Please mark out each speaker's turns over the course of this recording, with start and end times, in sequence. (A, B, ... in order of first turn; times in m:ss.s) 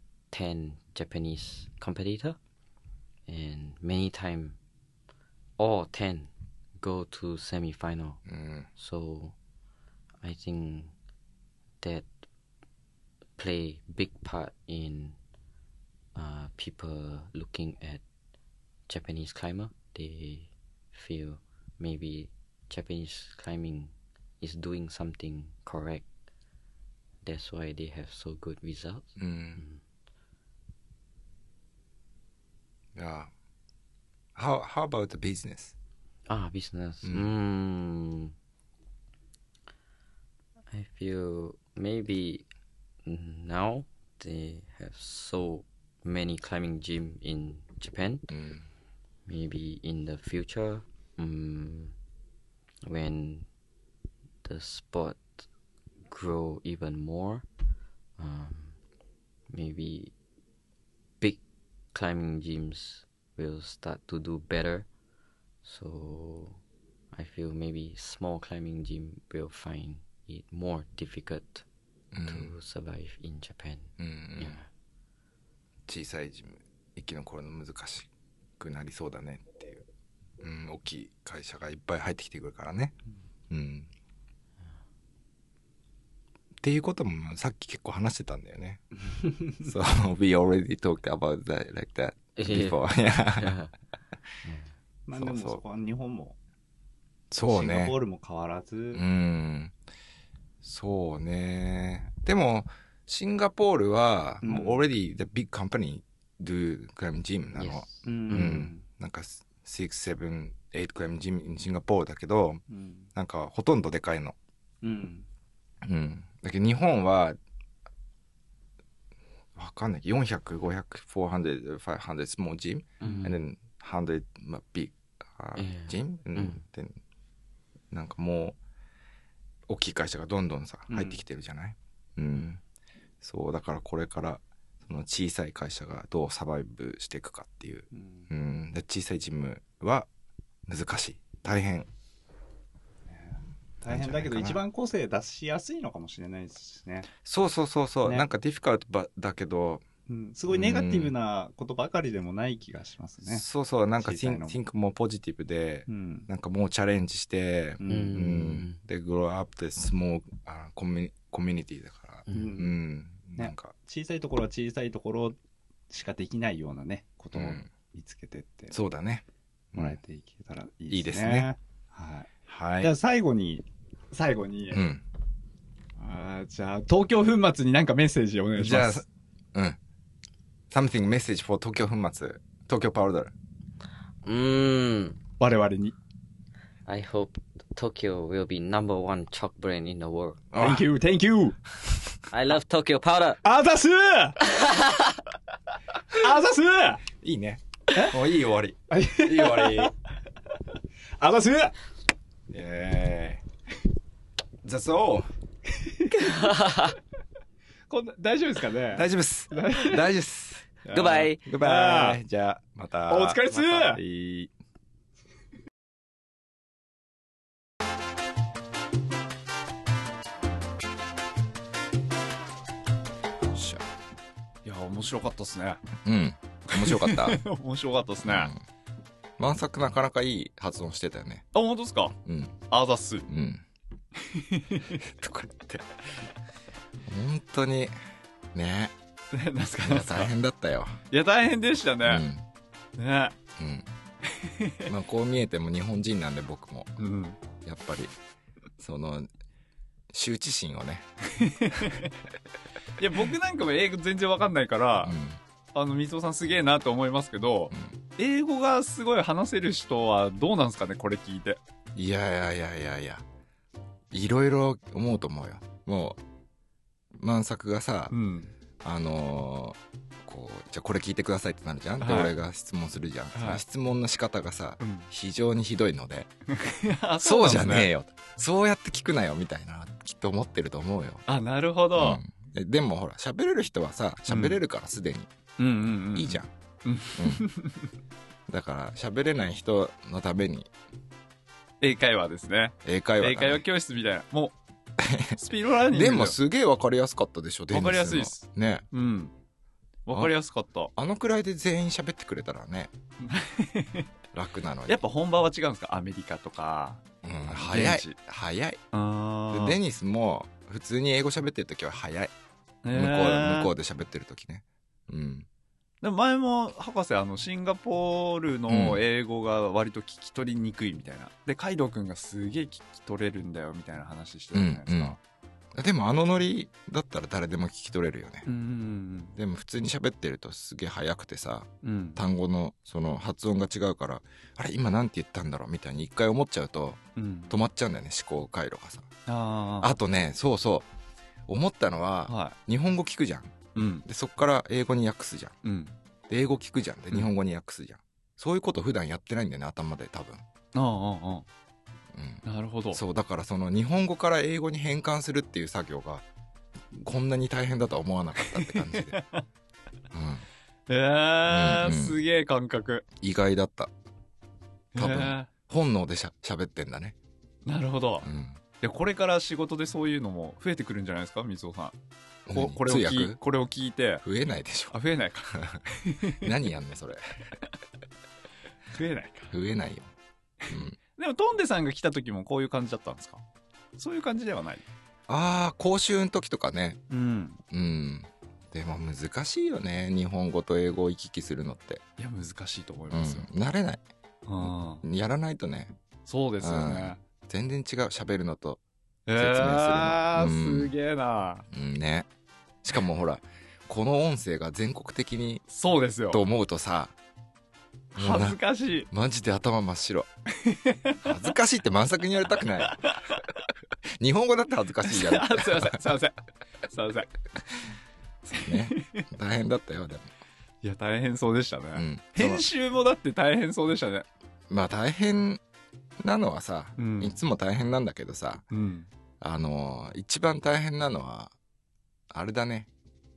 0:00.3-0:02.4 A
0:03.3-0:04.6 A
0:05.6-0:08.2 A
0:08.3-0:08.7 B
0:08.8-0:09.4 A
0:10.2-0:10.9 A
0:11.8-0:12.1 A
0:13.4-0:15.2 A
0:16.2-0:18.0 A
0:18.9-0:26.1 A
0:27.2-0:29.8 A
0:29.2-0:29.6 B
0:33.0-0:33.3 B
0:34.4-0:35.7 B
0:36.3-0:38.3 A
0:37.0-0:37.3 B
0:40.7-0:42.5 A
0:43.0-0:48.3 A
0:48.3-0:48.7 B
0:49.3-0:51.9 A
0:52.8-0:53.5 A
0:54.4-0:55.5 A
0:56.1-0:57.5 A
0:58.2-0:58.8 A
0:59.5-1:00.1 A
1:01.9-1:04.9 A
1:05.6-1:06.6 A
1:07.1-1:11.6 A
1:12.1-1:12.5 B
1:12.3-1:14.7 A
1:14.0-1:14.6 B
1:15.9-1:19.8 B
1:20.4-1:23.0 B
1:23.5-1:23.9 B
1:26.6-1:28.8 B
1:29.5-1:33.6 B
1:32.4-1:33.7 A
1:34.4-1:34.7 A
1:35.1-1:36.3 C
1:35.1-1:35.6 B
1:37.3-1:38.0 B
1:37.5-1:39.0 C
1:38.9-1:39.7 B
1:40.6-1:54.4 B
1:44.4-1:44.8 C
1:47.6-1:48.6 A
1:48.0-1:48.8 C
1:52.7-1:53.1 C
1:54.8-1:55.2 C
1:55.8-1:57.4 B
1:59.6-2:07.0 B
2:03.0-2:03.4 A
2:05.6-2:06.6 A
2:07.9-2:08.6 B
2:09.7-2:12.6 B
2:10.9-2:11.2 C
2:13.2-2:20.1 B
2:18.0-2:18.2 C
2:20.7-2:21.9 B
2:23.8-2:24.6 B
2:23.9-2:27.1 C
2:27.1-2:29.8 B
2:30.1-2:33.4 C
2:30.5-2:31.1 B
2:33.2-2:43.8 B
2:34.0-2:34.6 C
2:35.9-2:36.2 C
2:37.8-2:38.8 A
2:42.3-2:42.6 A
2:42.3-2:42.7 C
2:43.4-2:45.3 C
2:45.9-2:48.7 C
2:47.3-2:47.7 B
2:48.7-2:50.0 B
2:49.8-2:52.3 C
2:50.9-2:51.5 B
2:52.5-2:52.9 B
2:52.8-2:54.8 C
2:54.7-2:55.0 B
2:56.0-2:58.9 C
2:56.2-2:58.0 D
2:58.6-2:59.8 B
3:00.7-3:03.3 B
3:04.2-3:05.2 A
3:05.4-3:05.9 D
3:05.4-3:05.9 C
3:06.9-3:10.4 A
3:10.5-3:10.9 B
3:10.6-3:11.5 C
3:11.2-3:11.5 D
3:12.3-3:13.4 A
3:13.5-3:14.3 C
3:16.2-3:17.0 C
3:17.2-3:19.9 B
3:21.2-3:21.7 C
3:22.5-3:23.4 B
3:24.6-3:25.3 B
3:26.2-3:27.0 A
3:27.9-3:29.0 D
3:28.9-3:30.7 B
3:29.6-3:30.0 D
3:30.9-3:32.2 D
3:30.9-3:31.5 A
3:31.4-3:34.5 B
3:33.1-3:34.0 D
3:43.5-3:43.8 B
3:44.6-3:45.8 D
3:46.0-3:47.4 B
3:46.7-3:48.5 D
3:48.2-3:48.6 B
3:49.4-3:51.4 B
3:51.5-3:52.2 D
3:52.2-3:52.6 B
3:52.7-3:53.3 D
3:53.3-3:53.6 B
3:54.2-3:55.0 D
3:54.9-3:55.9 B
3:57.1-3:58.0 B
3:58.5-3:59.0 B
3:59.3-4:00.3 D
3:59.8-4:01.0 B
4:01.1-4:02.3 D
4:02.0-4:02.4 B
4:03.0-4:03.4 D
4:03.6-4:03.9 B
4:04.3-4:04.9 D
4:04.9-4:07.0 B
4:07.0-4:07.4 D
4:07.6-4:08.1 B
4:08.8-4:09.3 B
4:10.1-4:11.1 B
4:11.4-4:12.1 D
4:13.0-4:15.2 D
4:15.0-4:15.4 B
4:15.8-4:21.6 D
4:22.0-4:23.2 B
4:24.1-4:26.2 B
4:27.2-4:28.2 B
4:28.1-4:28.5 D
4:28.8-4:36.3 B
4:32.0-4:32.3 D
4:33.4-4:33.6 D
4:34.8-4:35.1 D
4:36.5-4:37.9 D
4:37.2-4:41.2 B
4:41.3-4:42.2 D
4:41.9-4:45.3 B
4:44.3-4:44.6 D
4:45.6-4:47.9 D
4:46.1-4:46.5 B
4:47.2-4:47.5 B
4:48.5-4:50.7 B
4:51.8-4:54.6 D
4:52.8-4:53.6 B
4:55.0-4:58.8 B
4:55.4-4:56.4 D
4:57.7-4:59.3 D
5:00.1-5:00.9 D
5:01.0-5:02.9 B
5:03.2-5:04.1 D
5:04.3-5:05.0 B
5:04.9-5:08.2 D
5:07.2-5:08.8 B
5:08.9-5:09.8 D
5:09.5-5:12.3 B
5:12.8-5:13.7 D
5:12.9-5:15.5 B
5:16.0-5:25.2 D
5:18.7-5:19.0 B
5:24.5-5:25.2 B
5:25.8-5:28.5 B
5:28.4-5:29.4 D
5:29.4-5:39.1 B
5:31.8-5:32.2 D
5:37.2-5:37.5 D
5:39.3-5:39.9 D
5:39.8-5:40.9 B
5:41.5-5:45.5 B
5:42.3-5:42.6 D
5:43.8-5:44.0 D
5:45.6-5:45.9 D
5:46.3-5:50.4 B
5:50.7-5:51.5 D
5:52.1-5:56.2 B
5:52.4-5:53.0 D
5:56.9-5:59.2 B
5:58.5-5:59.4 D
6:00.1-6:00.4 B
6:00.9-6:03.1 D
6:01.5-6:02.2 B
6:03.2-6:03.9 B
6:05.0-6:05.5 D
6:05.0-6:07.2 B
6:07.6-6:08.3 D
6:08.2-6:08.6 B
6:08.8-6:11.9 D
6:12.5-6:13.4 B
6:12.5-6:14.2 D
6:14.2-6:15.0 B
6:14.9-6:16.5 D
6:16.4-6:17.2 B
6:18.9-6:19.5 D
6:19.5-6:20.1 B
6:20.7-6:21.0 B
6:20.7-6:23.4 D
6:24.0-6:24.8 D
6:25.3-6:27.0 B
6:27.1-6:27.6 D
6:27.7-6:32.0 B
6:32.2-6:33.5 D
6:33.1-6:34.0 B
6:34.5-6:35.0 D
6:34.6-6:35.9 B
6:36.3-6:37.2 D
6:36.6-6:38.8 B
6:39.3-6:41.6 D
6:39.4-6:40.9 B
6:41.7-6:42.3 B
6:42.8-6:45.6 B
6:45.7-6:46.4 D
6:46.3-6:47.1 B
6:48.2-6:49.1 D
6:48.2-6:50.3 B
6:50.6-6:51.3 D
6:51.2-6:53.1 B
6:52.8-6:53.4 D
6:54.2-6:56.1 B
6:55.1-6:56.4 D
6:56.9-6:57.3 D
6:58.4-7:00.3 B
6:58.6-6:59.2 D
7:00.8-7:04.3 D
7:02.0-7:02.6 B
7:04.7-7:05.6 B
7:06.2-7:08.6 B
7:07.0-7:07.4 D
7:08.7-7:09.1 D
7:09.4-7:11.5 B
7:12.3-7:12.9 B